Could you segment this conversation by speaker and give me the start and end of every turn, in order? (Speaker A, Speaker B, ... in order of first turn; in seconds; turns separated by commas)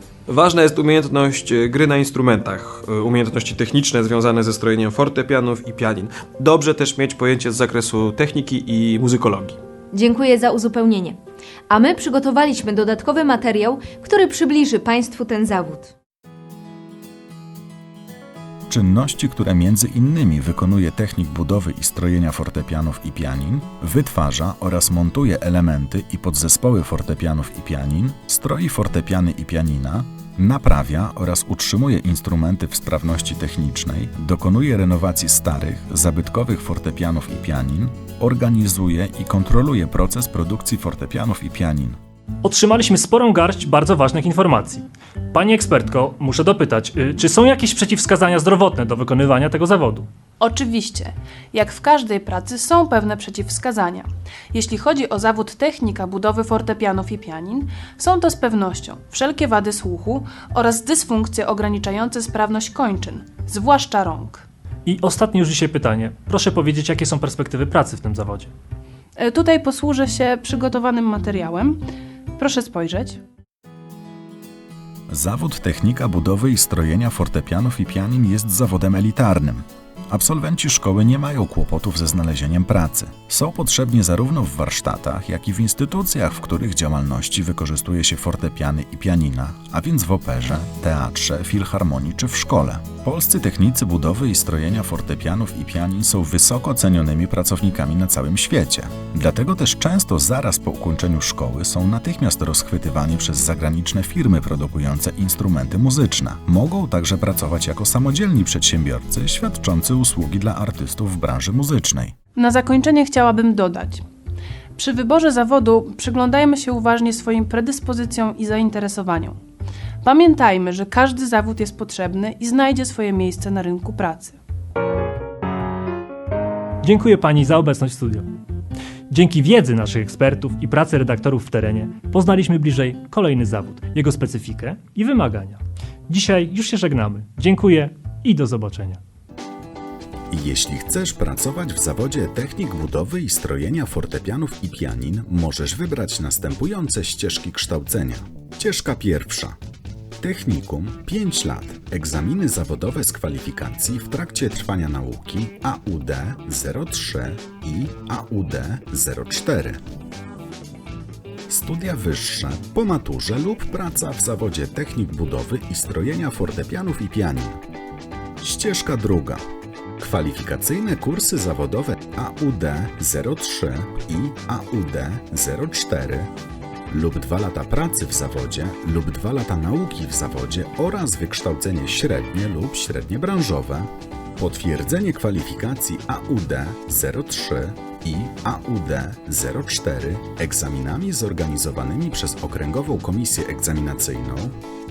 Speaker A: 0.3-9.6, Speaker B: 9.9-11.2, Speaker B: 11.7-15.9, Speaker C: 18.7-42.0, Speaker D: 42.4-50.1, Speaker E: 50.4-64.5, Speaker D: 64.9-68.5, Speaker E: 69.2-71.8, Speaker E: 72.4-73.2, Speaker C: 75.1-112.1, Speaker E: 112.4-114.0, Speaker E: 114.8-119.4, Speaker E: 120.0-124.4, Speaker D: 126.8-128.3, Speaker D: 129.1-139.0, Speaker C: 140.3-149.6, Speaker C: 150.2-159.8, Speaker C: 161.5-167.6, Speaker C: 168.4-169.4, Speaker C: 170.0-176.3, Speaker C: 176.9-194.6